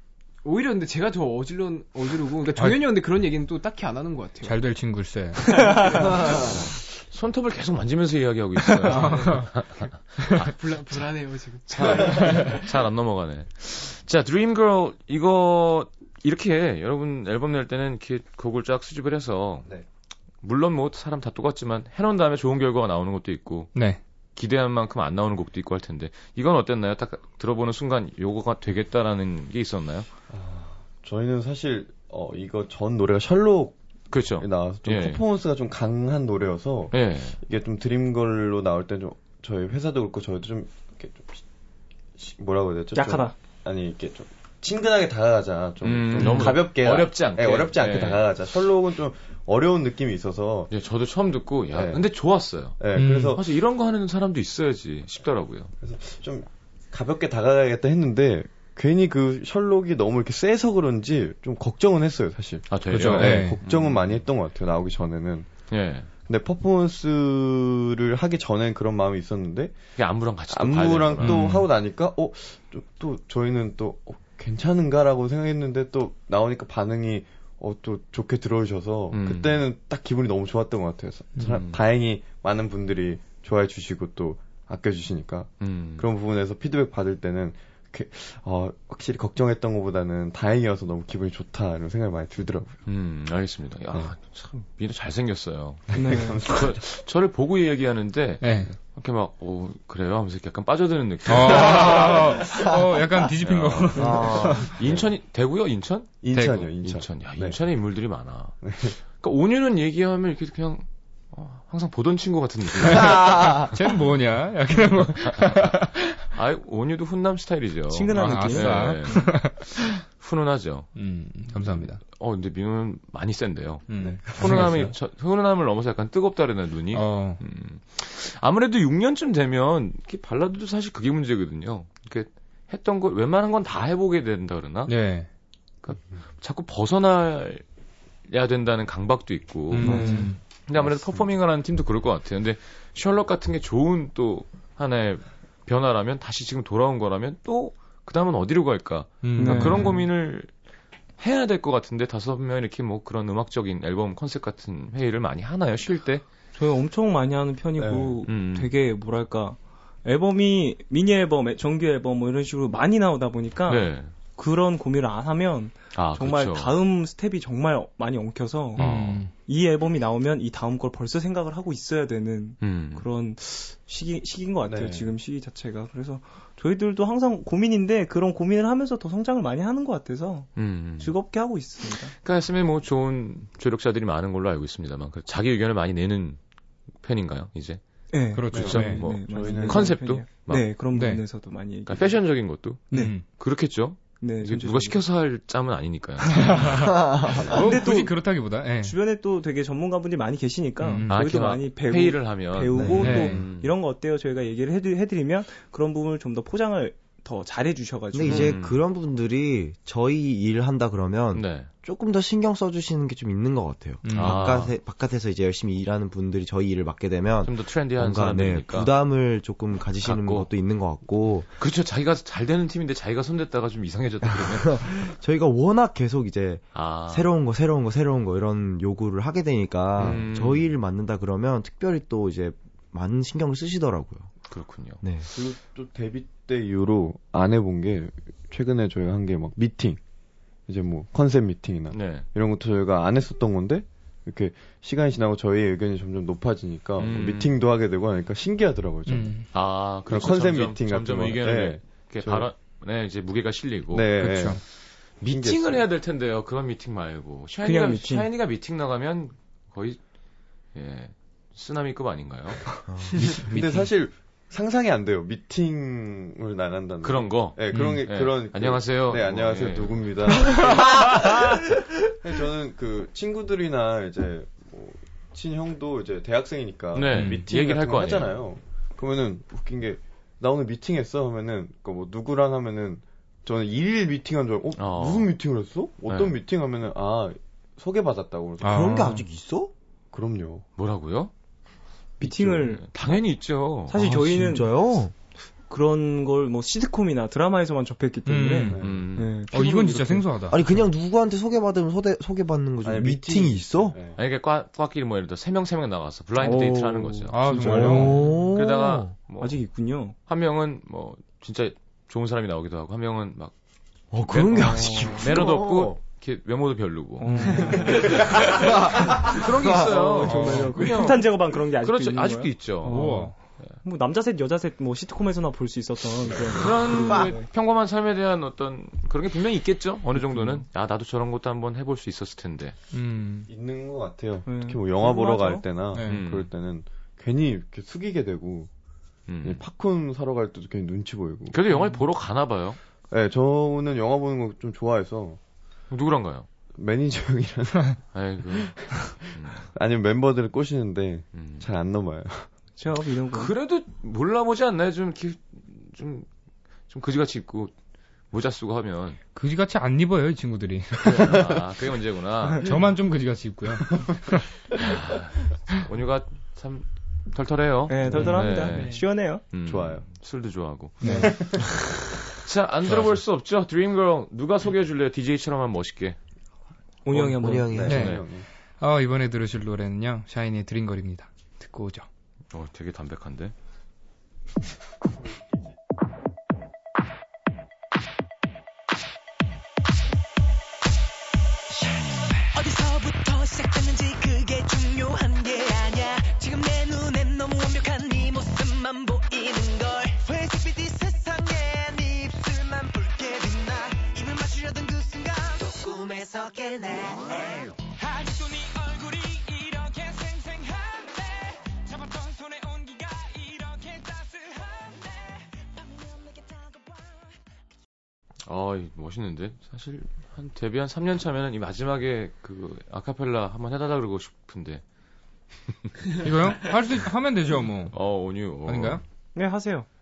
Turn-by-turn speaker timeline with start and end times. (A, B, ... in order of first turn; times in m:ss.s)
0:00.4-0:04.7 A
0:02.6-0:02.9 B
0:04.4-0:06.2 B
0:06.2-0:10.5 C
0:08.8-0:09.5 B
0:10.3-0:12.6 A
0:11.7-0:19.7 C
0:20.4-0:23.7 C
0:23.8-0:24.0 B
0:24.4-0:30.1 C
0:30.3-0:33.8 D
0:34.1-0:35.2 C
0:34.4-0:41.4 D
0:36.9-0:37.4 C
0:42.2-0:50.7 D
0:43.0-0:43.3 E
0:45.8-0:48.3 C
0:46.2-0:46.5 B
0:50.7-0:52.8 C
0:51.7-0:52.1 D
0:52.8-0:53.4 D
0:53.0-0:53.4 B
0:53.3-0:55.7 C
0:55.8-1:05.5 D
1:02.7-1:04.1 C
1:02.9-1:03.6 B
1:05.7-1:06.1 C
1:06.3-1:09.8 D
1:10.0-1:11.5 C
1:10.5-1:32.8 D
1:11.2-1:11.7 B
1:19.1-1:19.6 C
1:21.5-1:21.8 C
1:25.6-1:26.1 C
1:32.9-1:42.6 C
1:35.9-1:36.4 E
1:36.0-1:36.8 D
1:38.4-1:38.7 B
1:41.3-1:44.7 B
1:43.4-1:53.6 C
1:44.0-1:44.7 F
1:44.8-1:45.1 D
1:46.2-1:47.6 D
1:46.3-1:46.7 B
1:48.6-1:49.0 D
1:52.8-1:56.2 B
1:52.9-1:53.7 F
1:56.4-2:00.9 C
1:57.9-1:59.2 E
1:58.1-2:00.0 B
2:01.0-2:02.0 B
2:01.5-2:14.9 C
2:03.9-2:04.9 B
2:04.0-2:04.9 D
2:06.9-2:07.4 B
2:14.9-2:15.3 B
2:15.8-2:17.6 C
2:18.3-2:30.5 C
2:19.7-2:20.4 B
2:19.8-2:20.3 E
2:20.8-2:21.2 D
2:29.2-2:30.0 B
2:29.4-2:30.0 E
2:31.2-2:36.2 C
2:36.6-3:02.1 E
2:37.8-2:38.2 D
2:38.3-2:38.7 C
2:43.7-2:44.1 C
2:46.0-2:46.8 C
2:48.8-2:49.3 B
2:48.8-2:49.2 C
2:52.6-2:53.1 C
2:54.7-2:55.1 D
3:00.6-3:01.2 C
3:02.1-3:06.4 C
3:07.0-3:07.8 C
3:08.1-3:12.2 E
3:08.4-3:09.1 B
3:08.5-3:10.0 D
3:08.5-3:10.7 C
3:10.9-3:11.2 B
3:11.9-3:16.6 C
3:12.9-3:13.2 E
3:12.9-3:13.2 B
3:14.2-3:15.0 E
3:16.3-3:19.0 B
3:17.1-3:17.4 F
3:17.4-3:28.6 E
3:20.8-3:21.2 B
3:21.1-3:23.7 C
3:22.8-3:23.2 F
3:23.0-3:23.5 B
3:28.1-3:41.5 F
3:28.2-3:28.8 C
3:31.3-3:31.7 C
3:34.0-3:34.6 B
3:34.1-3:34.8 C
3:37.4-3:38.9 C
3:40.0-3:40.5 C
3:41.6-3:44.9 C
3:44.4-3:54.3 F
3:46.7-3:47.3 C
3:50.0-3:50.7 C
3:54.5-3:55.0 C
3:55.0-3:55.3 F
3:55.3-4:00.0 D
4:00.7-4:09.5 D
4:01.9-4:02.2 C
4:07.0-4:07.5 C
4:09.1-4:09.5 B
4:09.5-4:14.1 C
4:10.1-4:12.5 D
4:13.9-4:14.6 D
4:14.2-4:14.6 B
4:15.2-4:20.0 C
4:15.2-4:15.9 D
4:17.6-4:18.3 E
4:20.7-4:22.7 C
4:22.9-4:23.3 F
4:23.2-4:49.2 D
4:23.2-4:23.9 B
4:27.0-4:31.3 C
4:27.7-4:28.0 B
4:36.9-4:38.4 C
4:44.8-4:45.3 C
4:46.1-4:46.4 C
4:48.6-4:49.2 B
4:48.6-4:49.7 F
4:50.1-4:50.6 D
4:50.8-4:51.3 C
4:52.2-4:53.2 E
4:52.2-4:52.7 D
4:52.8-4:54.0 C
4:53.9-4:54.7 E
4:53.9-4:55.1 F
4:55.7-5:00.3 E
4:58.3-5:00.8 B
4:58.7-4:59.0 D
4:58.8-4:59.3 C
5:00.5-5:04.0 F
5:02.8-5:04.2 D
5:04.2-5:09.6 C
5:06.4-5:08.2 E
5:07.3-5:08.3 B
5:07.6-5:09.1 F
5:09.4-5:10.2 E
5:10.3-5:13.5 C
5:14.1-5:16.0 F
5:14.2-5:23.7 C
5:14.6-5:15.3 E
5:17.2-5:18.3 E
5:17.3-5:17.8 B
5:17.5-5:20.3 F
5:19.3-5:27.5 E
5:20.2-5:20.8 B
5:20.3-5:21.0 A
5:22.8-5:23.4 B
5:26.5-5:32.8 C
5:30.3-5:30.6 E
5:32.9-5:33.5 B
5:33.5-5:38.7 D
5:34.5-5:35.6 E
5:35.9-5:36.2 B
5:36.1-5:36.5 C
5:39.3-5:39.6 C
5:39.4-5:41.6 D
5:41.5-5:42.8 C
5:43.1-5:45.4 D
5:45.9-5:46.5 C
5:46.8-5:48.0 D
5:48.1-5:49.7 C
5:49.7-5:52.5 D
5:51.3-5:51.7 C
5:52.8-5:53.5 E
5:53.3-5:56.3 C
5:56.9-5:57.7 C
5:58.3-5:59.2 C
5:59.4-6:01.5 B
6:01.0-6:02.8 C
6:02.6-6:04.5 B
6:04.8-6:11.7 C
6:07.9-6:09.4 E
6:08.7-6:09.0 A
6:09.6-6:10.0 D
6:11.0-6:11.3 E
6:11.0-6:11.6 B
6:11.2-6:11.8 D
6:12.2-6:16.2 C
6:17.0-6:17.9 E
6:17.1-6:18.1 F
6:17.6-6:18.5 D
6:17.9-6:18.2 B
6:17.9-6:18.2 C
6:18.8-6:22.1 B
6:22.5-6:23.5 C
6:32.5-6:57.4 G
6:58.5-7:04.8 C
7:06.2-7:08.0 B
7:07.9-7:09.0 C
7:08.7-7:09.0 B
7:09.4-7:09.9 E